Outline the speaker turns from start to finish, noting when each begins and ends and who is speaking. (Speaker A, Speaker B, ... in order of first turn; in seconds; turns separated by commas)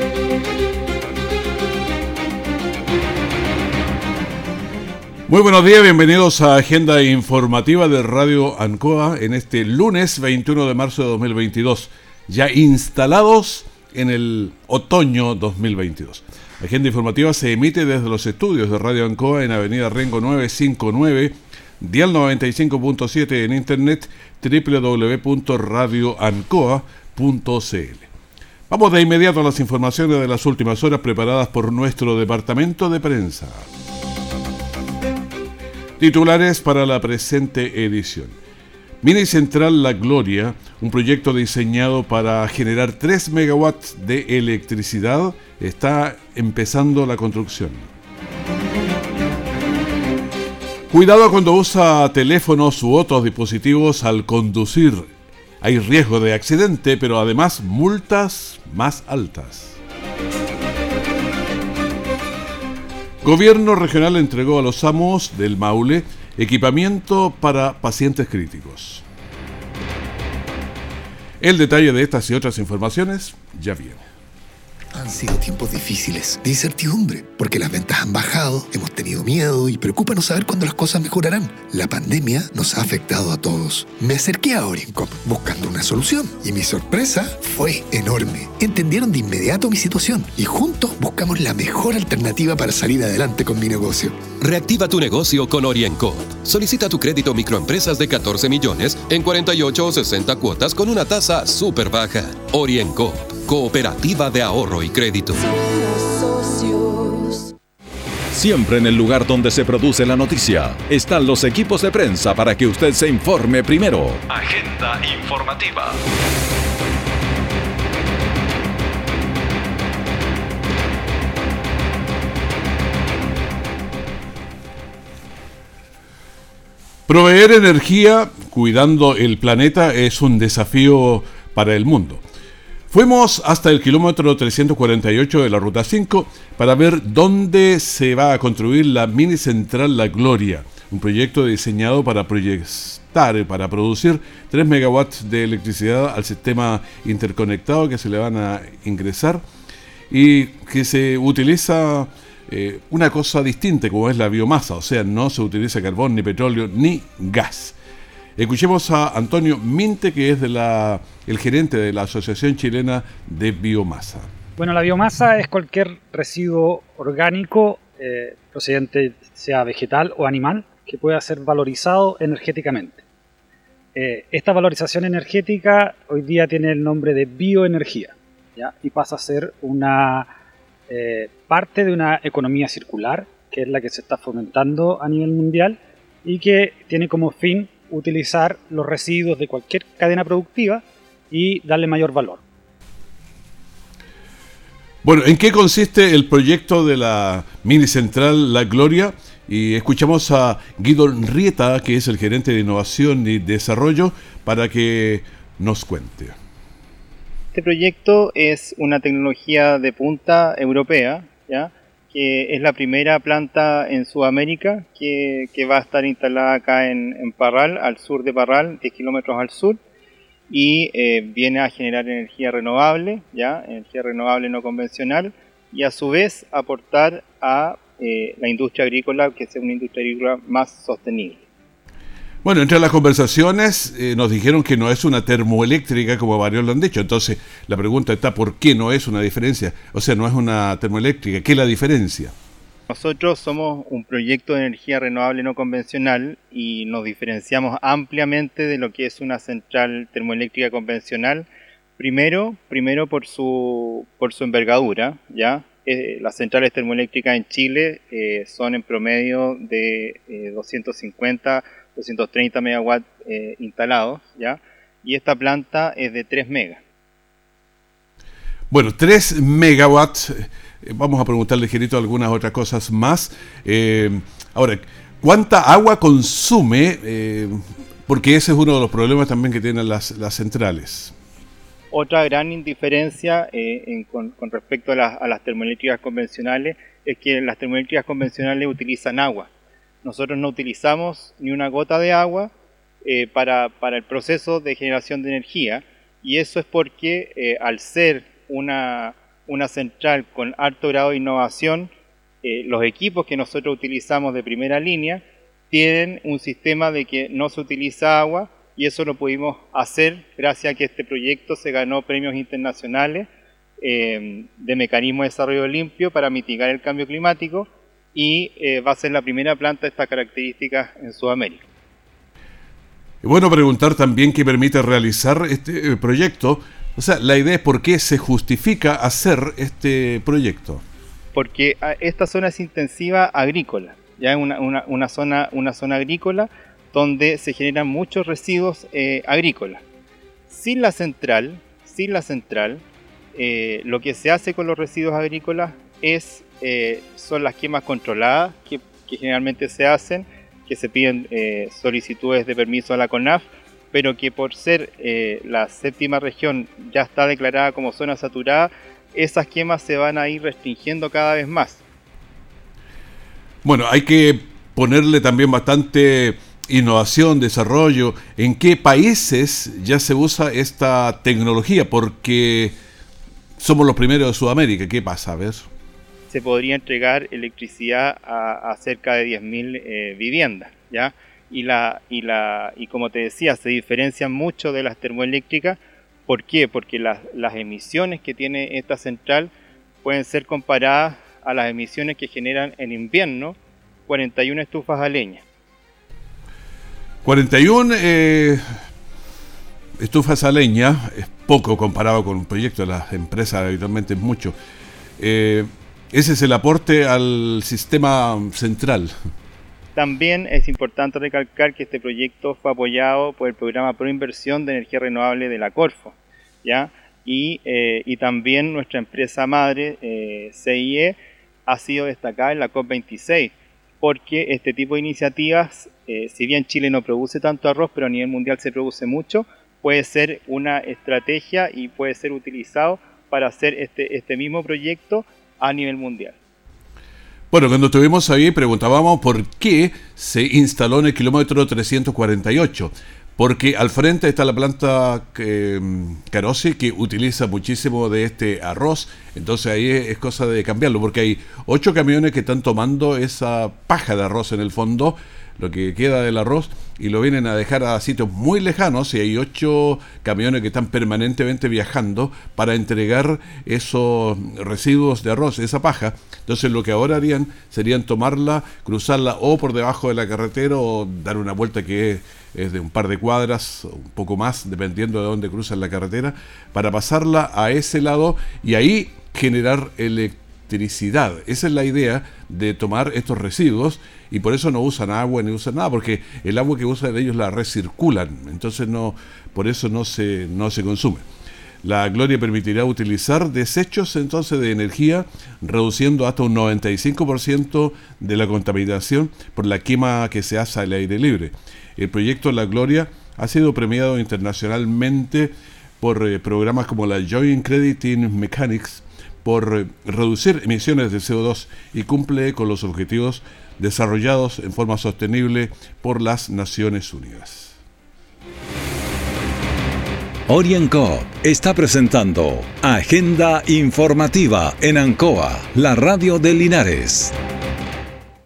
Speaker A: 5.3-28.1, Speaker A: 28.7-33.6, Speaker A: 36.0-38.4, Speaker A: 39.0-47.9, Speaker A: 50.9-55.0, Speaker A: 55.6-59.8, Speaker A: 63.2-69.0, Speaker A: 71.4-74.1, Speaker B: 74.9-94.2, Speaker C: 94.4-105.4, Speaker D: 108.3-116.0, Speaker A: 127.1-132.2, Speaker A: 132.9-149.4, Speaker A: 150.1-157.8, Speaker A: 158.4-164.3, Speaker E: 164.6-173.0, Speaker E: 173.9-180.3, Speaker E: 180.9-192.4, Speaker A: 195.0-206.3, Speaker F: 207.5-219.8, Speaker F: 220.5-231.4, Speaker A: 232.4-242.3, Speaker F: 242.9-251.5, Speaker F: 252.0-266.8, Speaker A: 268.7-281.1, Speaker F: 281.9-289.5, Speaker F: 290.0-292.5, Speaker F: 293.0-301.9, Speaker F: 302.4-313.3, Speaker F: 313.8-321.6, Speaker A: 323.2-330.8, Speaker F: 331.3-339.8, Speaker F: 340.5-342.8, Speaker F: 343.3-361.8, Speaker A: 363.6-372.8, Speaker A: 373.6-375.6, Speaker F: 376.3-389.5, Speaker F: 390.0-393.6, Speaker F: 394.1-395.4, Speaker A: 397.2-398.6, Speaker A: 400.0-404.5, Speaker A: 405.2-409.1, Speaker F: 409.9-436.4, Speaker A: 437.5-491.2, Speaker A: 491.8-517.8, Speaker D: 520.5-527.3